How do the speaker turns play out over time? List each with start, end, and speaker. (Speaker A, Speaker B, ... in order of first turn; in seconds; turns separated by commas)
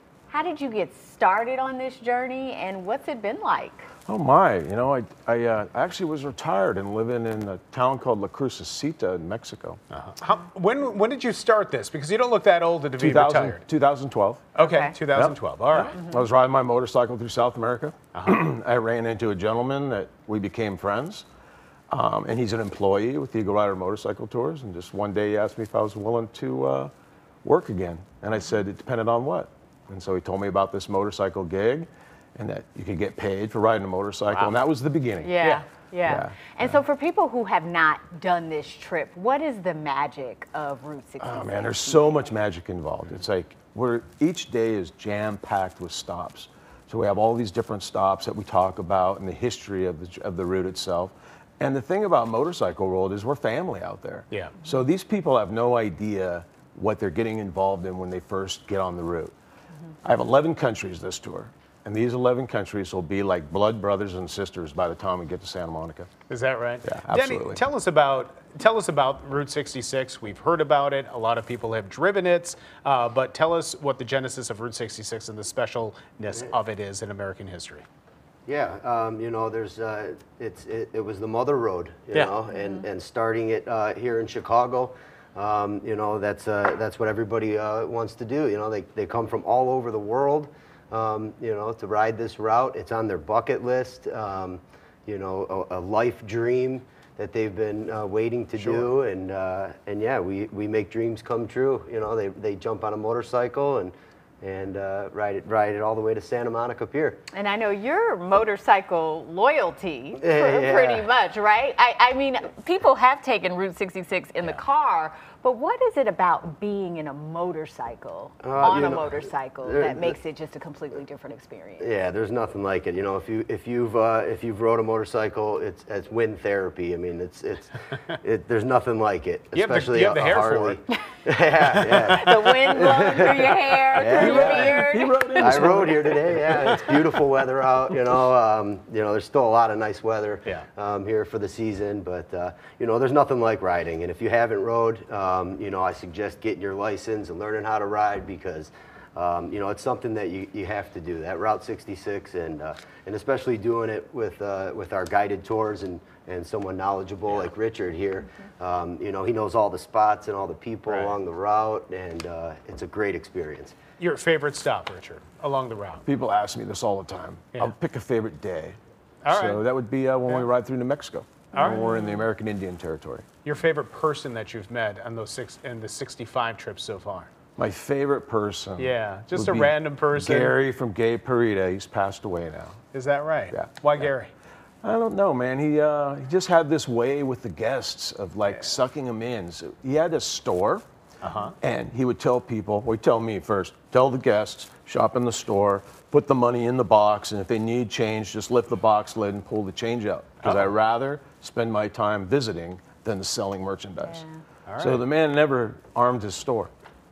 Speaker A: 0.3-3.9, Speaker B: 4.0-9.8, Speaker C: 9.9-13.6, Speaker B: 13.0-14.5, Speaker C: 14.5-15.9, Speaker A: 14.6-14.9, Speaker B: 15.1-21.2, Speaker C: 18.1-18.4, Speaker B: 21.9-26.9, Speaker B: 27.4-35.3, Speaker C: 34.3-34.5, Speaker A: 35.2-42.3, Speaker B: 36.0-36.8, Speaker B: 41.2-59.3, Speaker C: 54.3-54.6, Speaker B: 60.0-66.1, Speaker C: 66.3-77.8, Speaker B: 66.8-67.6, Speaker D: 78.5-107.2, Speaker A: 82.5-82.8, Speaker C: 98.6-98.9, Speaker A: 107.3-121.9, Speaker D: 110.2-111.1, Speaker D: 118.4-120.2, Speaker D: 121.8-134.8, Speaker C: 129.5-130.8, Speaker A: 132.0-135.9, Speaker B: 133.9-137.0, Speaker D: 135.4-163.7, Speaker C: 160.9-161.1, Speaker C: 164.0-166.0, Speaker B: 166.0-168.8, Speaker C: 169.2-169.6, Speaker B: 169.3-173.2, Speaker A: 171.5-172.2, Speaker C: 171.5-171.8, Speaker C: 173.4-177.3, Speaker B: 177.6-182.8, Speaker C: 178.8-180.6, Speaker C: 182.9-184.3, Speaker B: 183.5-184.0, Speaker B: 184.8-190.8, Speaker C: 191.2-191.5, Speaker B: 191.6-204.2, Speaker C: 200.4-200.7, Speaker A: 204.0-204.4, Speaker C: 204.7-205.0, Speaker B: 204.8-206.7